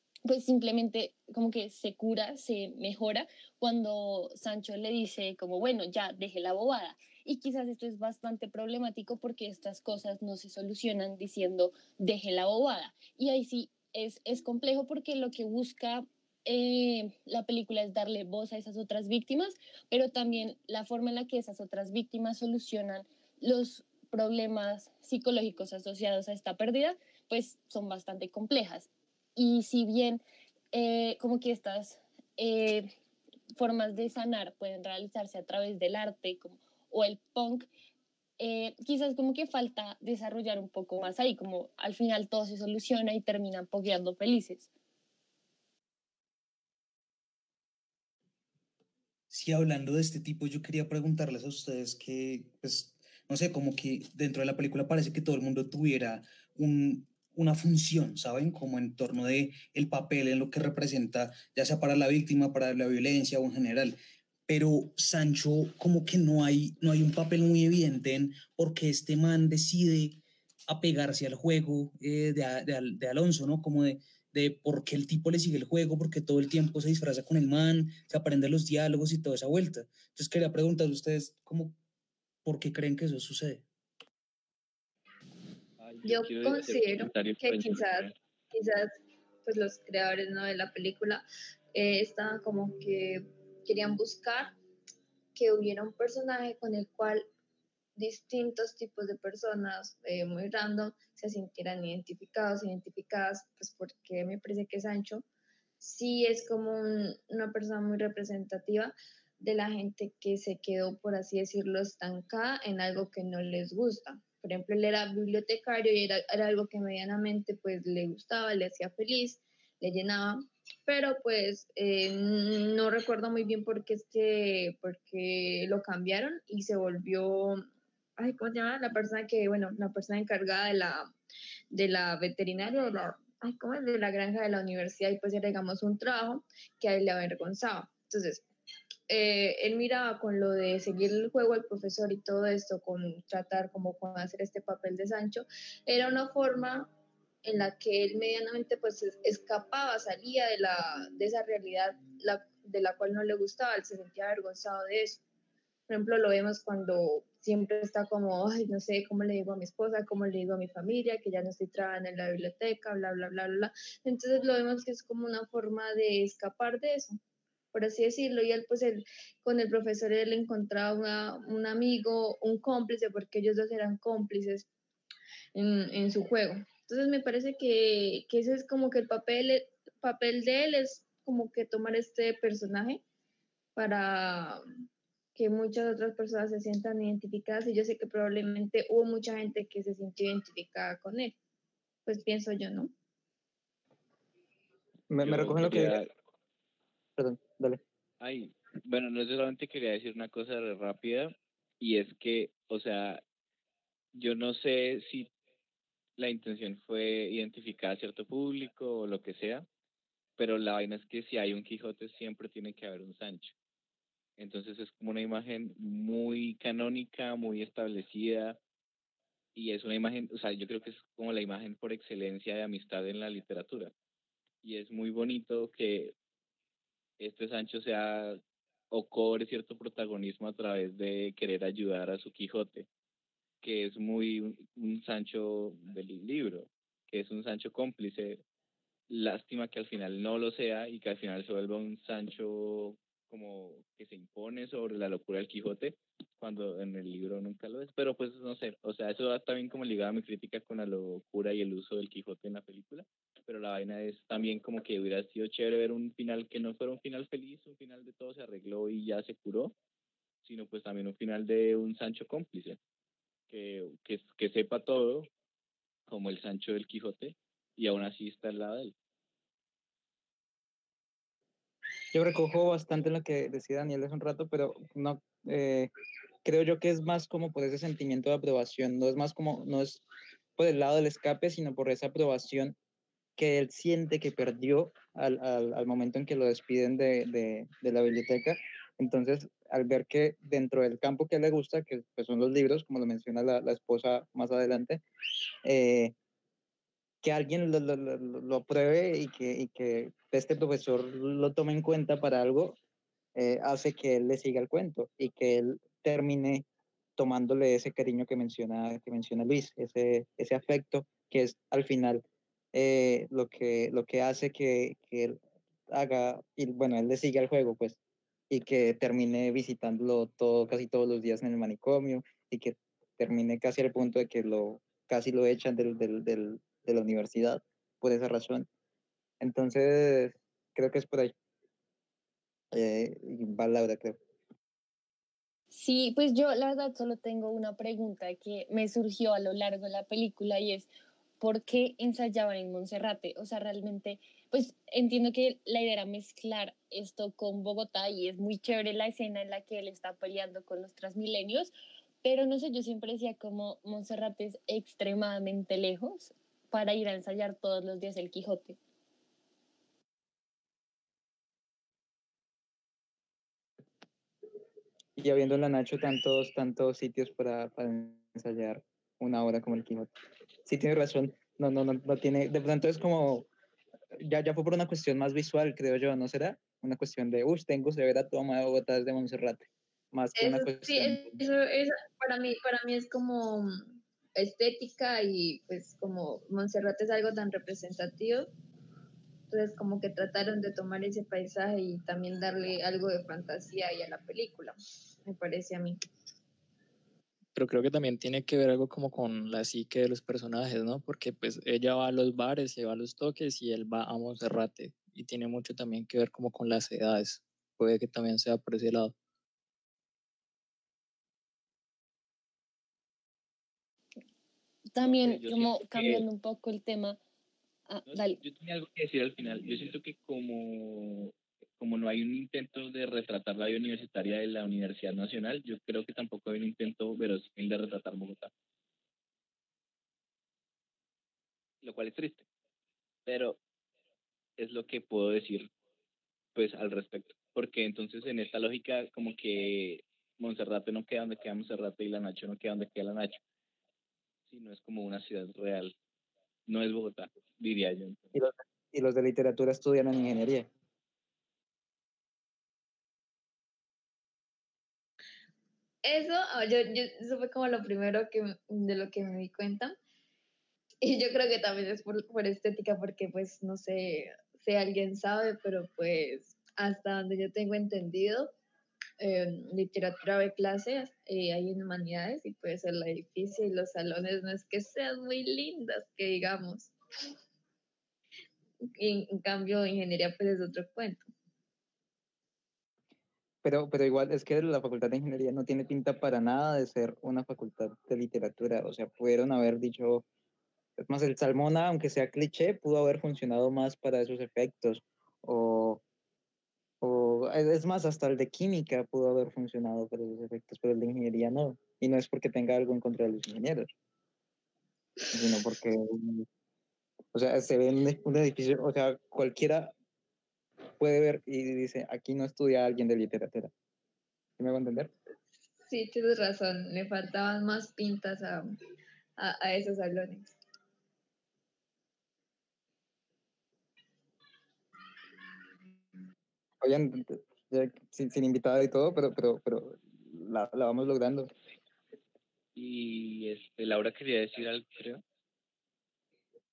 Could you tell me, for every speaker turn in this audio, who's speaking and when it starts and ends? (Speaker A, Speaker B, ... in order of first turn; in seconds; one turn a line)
Speaker A: 0.2-32.9
Speaker A: 33.6-37.7
Speaker A: 38.4-44.7
Speaker B: 49.3-64.0
Speaker B: 64.5-81.8
Speaker B: 82.4-83.6
Speaker C: 85.8-88.1
Speaker D: 86.0-88.9
Speaker D: 89.4-94.5
Speaker D: 95.3-97.2
Speaker D: 98.0-105.2
Speaker D: 105.8-127.6
Speaker D: 128.2-131.1
Speaker D: 131.7-138.4
Speaker D: 139.1-146.9
Speaker D: 147.4-155.2
Speaker D: 155.9-167.2
Speaker D: 167.7-174.7
Speaker D: 175.5-183.0
Speaker D: 183.8-184.6
Speaker D: 185.3-191.3
Speaker D: 192.1-192.9
Speaker E: 195.1-196.0
Speaker C: 195.2-196.1
Speaker E: 197.2-197.8
Speaker C: 198.2-203.2
Speaker C: 204.1-205.3
Speaker C: 206.2-209.7
Speaker C: 210.4-213.5
Speaker C: 214.4-218.6
Speaker C: 219.5-223.9
Speaker C: 224.6-226.1
Speaker C: 227.2-232.9
Speaker C: 233.6-238.4
Speaker C: 239.1-259.7
Speaker C: 260.4-262.8
Speaker C: 263.5-265.3
Speaker C: 266.1-268.9
Speaker E: 272.1-275.9
Speaker E: 276.4-280.0
Speaker E: 280.6-282.8
Speaker E: 283.4-295.0
Speaker E: 295.6-296.1
Speaker E: 297.2-302.8
Speaker E: 303.3-306.6
Speaker E: 307.2-318.0
Speaker E: 318.5-328.7
Speaker E: 329.4-331.3
Speaker E: 332.7-334.2
Speaker A: 335.7-340.9
Speaker A: 341.4-351.7
Speaker A: 352.2-358.8
Speaker E: 365.2-370.1
Speaker E: 370.6-373.5
Speaker E: 374.1-381.4
Speaker D: 380.4-388.5
Speaker D: 389.5-394.7
Speaker D: 395.2-396.0
Speaker F: 397.5-409.1
Speaker A: 414.9-417.2
Speaker C: 415.0-416.2
Speaker A: 417.9-418.4
Speaker C: 418.1-428.5
Speaker C: 431.8-432.4
Speaker C: 433.2-433.6
Speaker C: 434.6-435.7
Speaker C: 436.5-443.4
Speaker C: 444.5-445.9
Speaker C: 446.7-448.2
Speaker E: 448.3-450.7
Speaker D: 456.0-460.0
Speaker D: 461.0-468.5
Speaker D: 469.2-476.9
Speaker D: 478.9-481.2
Speaker E: 483.6-490.2
Speaker E: 491.0-496.0
Speaker E: 497.0-503.9
Speaker E: 505.3-506.4
Speaker E: 507.3-509.9
Speaker E: 511.0-513.7
Speaker E: 514.6-515.1
Speaker D: 515.8-518.7
Speaker D: 519.4-520.5
Speaker E: 526.8-531.5
Speaker C: 532.7-535.2